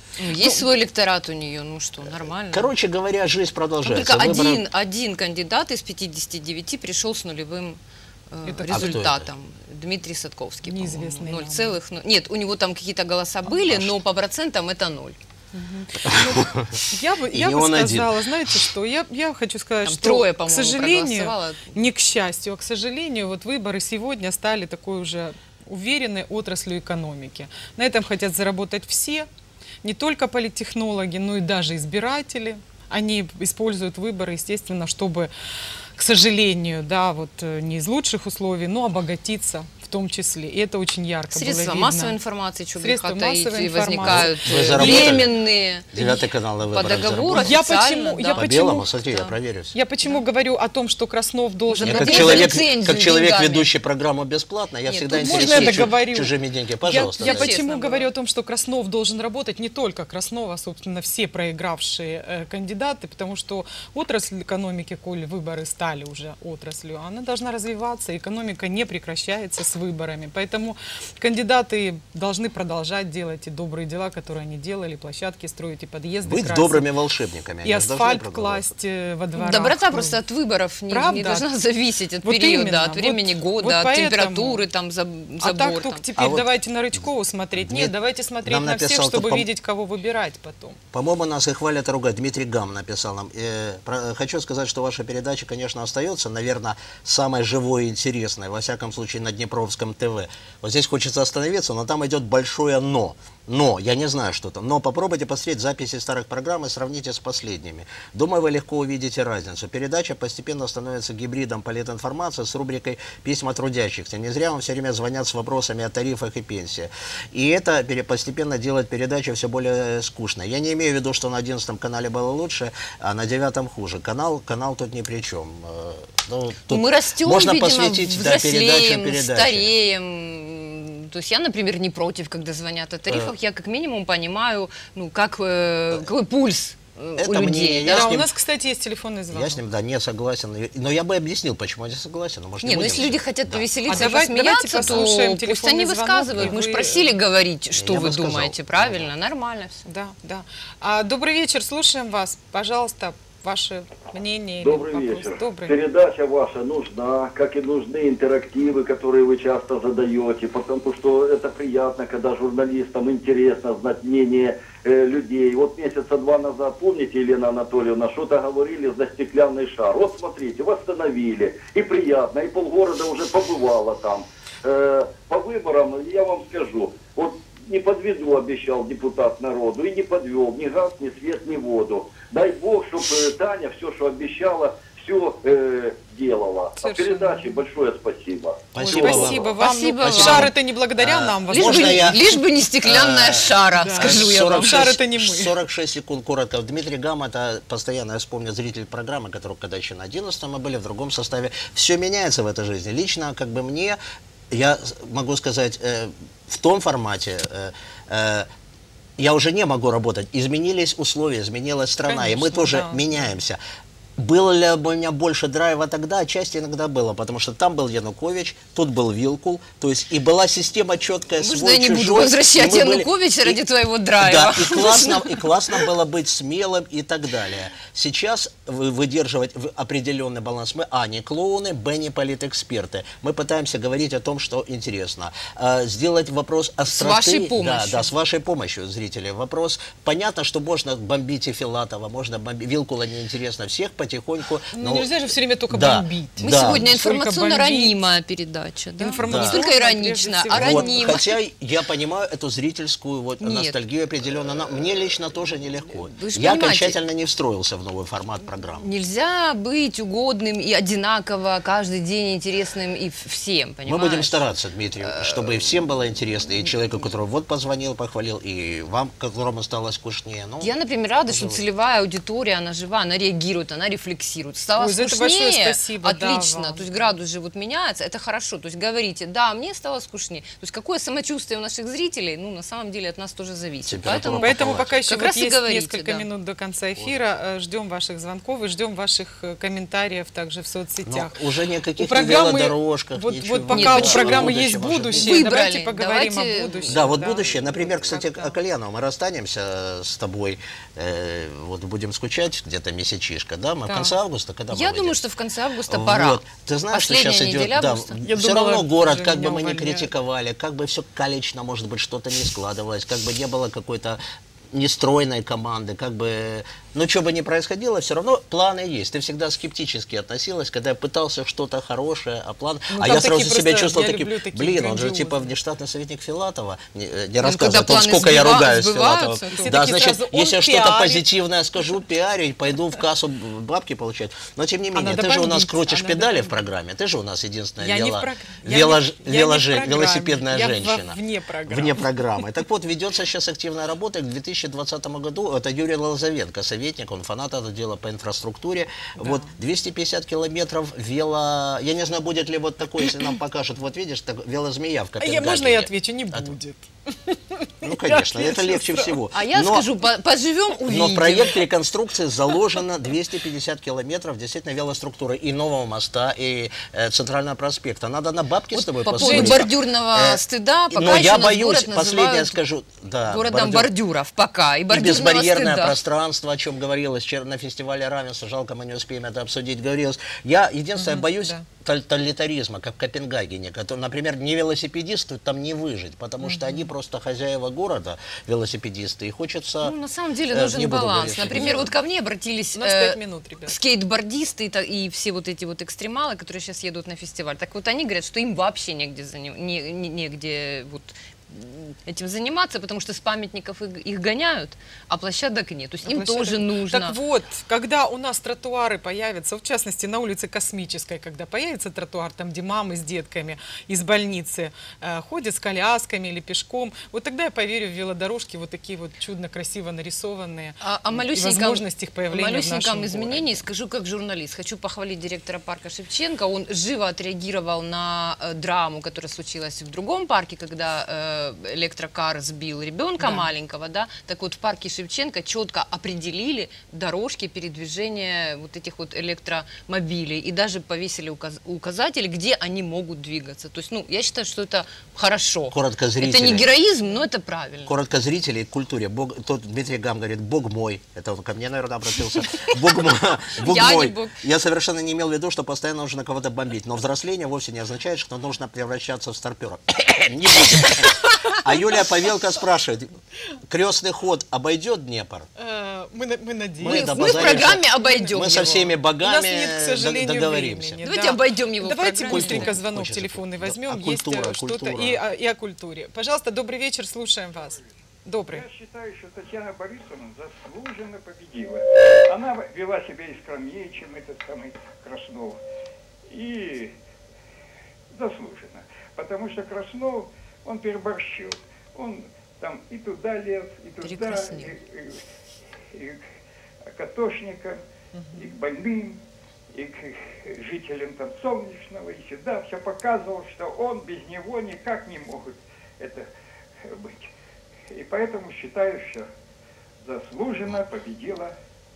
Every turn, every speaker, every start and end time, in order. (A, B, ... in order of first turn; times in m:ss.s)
0:00.2-0:02.7 A
0:02.5-0:04.6 B
0:03.8-0:07.8 A
0:08.3-0:15.2 A
0:08.5-0:09.0 C
0:08.7-0:09.3 B
0:10.7-0:11.8 C
0:13.7-0:13.9 B
0:15.5-0:29.3 C
0:16.0-0:18.7 B
0:19.8-0:21.7 A
0:29.8-0:35.3 C
0:36.0-0:42.2 C
0:41.3-0:49.4 A
0:42.8-0:45.2 C
0:44.0-0:45.4 B
0:45.9-0:47.6 B
0:47.3-0:48.9 C
0:48.3-0:49.8 B
0:49.7-0:52.6 C
0:51.7-0:53.7 A
0:51.8-0:57.5 B
0:54.9-0:55.9 A
0:55.2-1:16.8 C
0:57.2-0:58.1 A
1:16.2-1:18.7 B
1:17.6-1:20.2 C
1:19.4-1:26.0 A
1:20.9-1:21.4 C
1:22.2-1:24.6 C
1:25.4-1:30.8 C
1:26.2-1:26.5 B
1:27.6-1:27.9 B
1:28.4-1:29.5 B
1:30.9-2:09.7 B
2:06.7-2:18.1 A
2:13.1-2:13.3 B
2:17.2-2:18.3 B
2:17.9-2:19.6 C
2:19.3-2:24.1 B
2:22.6-2:29.8 A
2:23.9-2:27.1 C
2:24.8-2:25.1 B
2:26.3-2:26.5 B
2:27.8-2:29.1 B
2:29.9-2:35.8 C
2:34.6-3:08.7 D
3:06.8-3:07.6 C
3:08.7-3:24.0 B
3:08.8-3:12.4 C
3:08.8-3:10.5 A
3:11.5-3:15.0 A
3:13.7-3:15.6 C
3:24.5-3:28.5 B
3:29.2-3:33.6 B
3:32.0-3:33.3 C
3:34.2-3:43.6 B
3:41.4-3:45.9 A
3:44.2-4:06.8 B
3:56.9-3:58.1 A
4:04.7-4:08.0 C
4:06.4-4:11.4 A
4:09.0-4:11.2 C
4:09.2-4:09.6 B
4:10.5-4:18.9 B
4:13.4-4:13.8 A
4:15.9-4:17.0 A
4:18.8-4:24.4 A
4:23.9-4:30.7 B
4:25.0-4:25.6 A
4:30.6-4:46.3 A
4:31.3-4:31.6 B
4:34.8-4:36.9 C
4:43.9-4:44.9 B
4:44.1-4:51.4 C
4:51.0-4:55.6 B
4:52.0-4:58.6 C
4:53.7-4:54.6 A
4:55.1-4:57.1 A
4:56.9-5:05.2 B
5:03.9-5:04.1 A
5:04.7-5:08.2 A
5:05.9-5:14.2 B
5:08.2-5:10.1 C
5:14.7-5:56.5 B
5:22.9-5:25.5 C
5:27.4-5:29.8 A
5:29.6-5:31.2 C
5:34.9-5:36.6 C
5:37.8-5:42.1 C
5:49.2-5:49.5 C
5:55.2-5:59.2 C
5:57.8-5:59.9 B
5:59.3-6:01.6 A
6:00.9-6:13.9 B
6:08.7-6:12.6 A
6:09.2-6:09.7 C
6:13.3-6:16.0 A
6:14.9-6:30.0 B
6:21.0-6:21.7 C
6:26.4-6:26.9 C
6:29.8-6:47.2 A
6:30.5-6:31.9 B
6:32.8-6:33.8 C
6:46.1-7:03.6 C
7:00.8-7:28.0 A
7:13.2-7:13.5 C
7:25.7-7:26.7 B
7:27.9-7:43.2 B
7:32.5-7:33.0 A
7:33.6-7:34.4 A
7:43.7-7:45.5 B
7:45.6-7:48.4 C
7:46.8-7:51.0 B
7:46.8-7:48.9 A
7:49.2-7:58.7 C
7:51.0-7:52.8 A
7:52.2-7:55.2 B
7:57.6-7:57.9 E
7:58.5-8:05.6 E
8:06.3-8:06.9 E
8:08.1-8:15.2 E
8:14.0-8:14.8 A
8:15.9-8:16.2 E
8:16.9-8:17.8 E
8:18.2-8:18.5 C
8:18.3-8:19.2 E
8:19.7-8:26.3 E
8:26.8-8:27.3 E
8:27.9-8:29.3 E
8:30.0-8:31.5 E